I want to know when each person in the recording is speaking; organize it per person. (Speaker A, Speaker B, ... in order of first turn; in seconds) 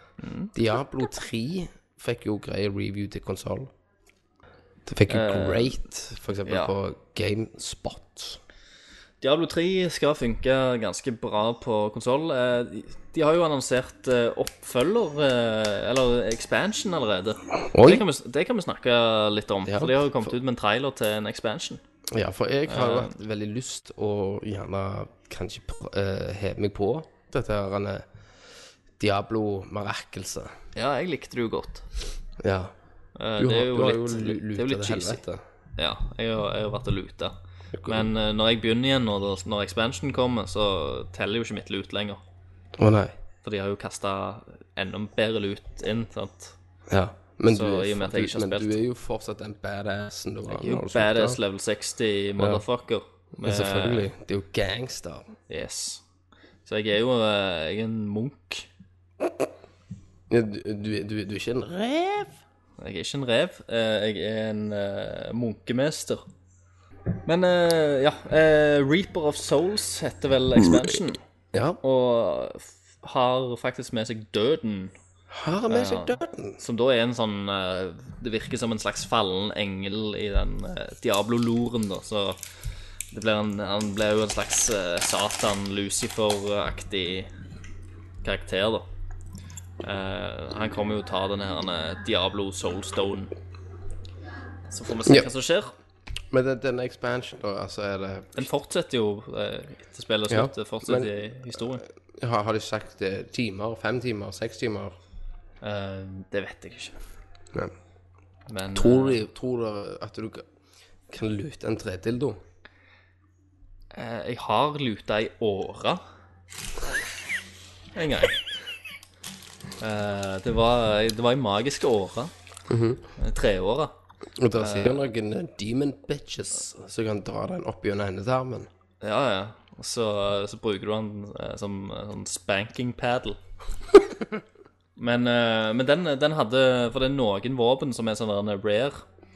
Speaker A: 0.2-0.5, 5.1-5.8, 6.5-6.7, 9.2-21.8, 22.7-23.1, 30.7-31.9, 33.2-35.2, 35.8-37.3, 37.9-42.2, 43.4-46.5, 47.5-48.7, 50.5-54.1, 55.5-56.0, 56.6-58.7, 62.8-66.2, 67.3-71.2, 71.8-74.9, 75.7-82.4, 83.1-87.3, 88.2-88.9, 89.8-93.3, 94.7-95.7, 98.4-101.8, 105.6-107.0, 108.5-109.2, 113.9-116.0, 118.0-118.4, 119.8-122.3, 123.2-123.9, 124.5-125.0, 129.0-133.4, 135.0-139.0
Speaker B: 0.5-3.7, 4.9-8.4, 17.6-18.1, 19.6-20.3, 22.1-28.1, 29.0-30.5, 32.4-32.7, 33.4-35.4, 37.7-38.1, 42.8-43.1, 46.9-51.4, 52.4-52.6, 53.3-55.3, 60.3-62.4, 71.5-71.8, 75.3-76.6, 95.0-95.3, 96.3-98.5, 100.3-101.1, 102.1-105.0, 108.7-110.5, 111.1-112.4, 122.7-123.0, 124.4-128.7